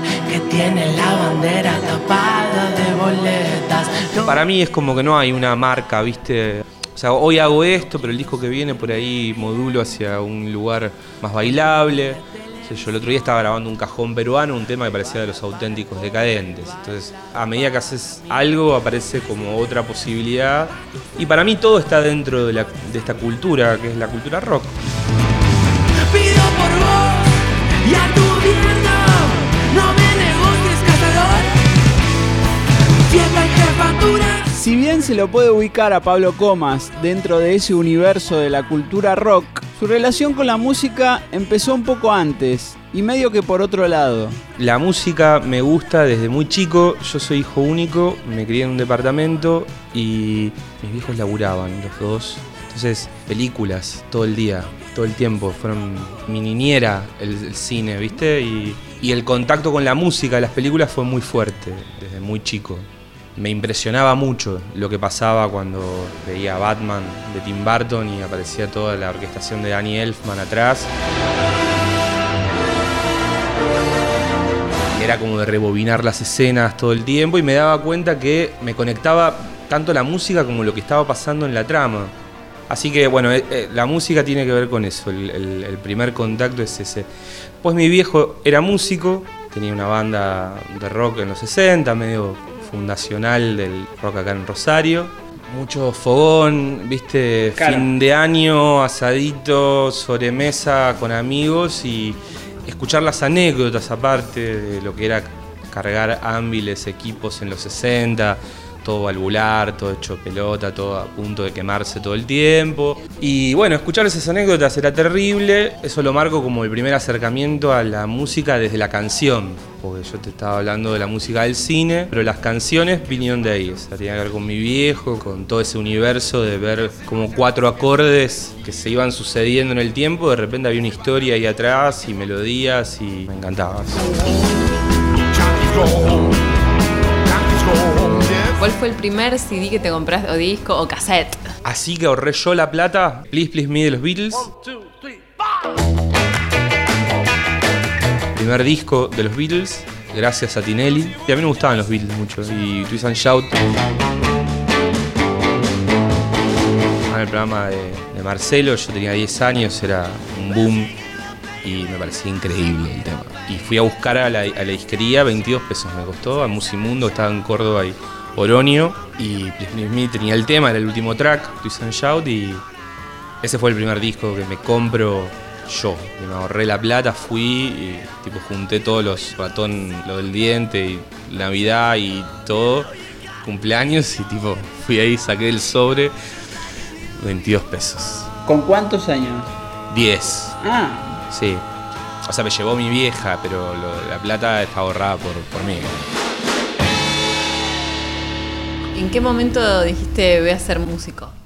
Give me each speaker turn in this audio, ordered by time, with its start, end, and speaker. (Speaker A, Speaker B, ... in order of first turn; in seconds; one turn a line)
Speaker A: 0.2-4.5
Speaker B: 4.2-24.8
Speaker A: 26.0-31.5
Speaker A: 33.1-34.5
Speaker C: 34.5-44.4
Speaker B: 44.6-70.9
Speaker B: 74.9-82.1
Speaker B: 82.7-87.1
Speaker B: 87.6-134.2
Speaker C: 97.6-97.9
Speaker B: 135.6-136.2
Speaker B: 137.3-138.3
Speaker D: 138.5-141.5
Speaker B: 141.6-144.5
Speaker B: 148.3-153.6
Speaker B: 157.1-160.9
Speaker B: 161.6-172.6
Speaker B: 173.4-182.9
Speaker B: 183.4-186.1
Speaker B: 187.2-188.3
Speaker C: 188.5-189.5
Speaker B: 189.9-190.6
Speaker C: 190.6-191.2
Speaker B: 191.3-191.7
Speaker B: 192.3-196.0
Speaker D: 198.9-201.3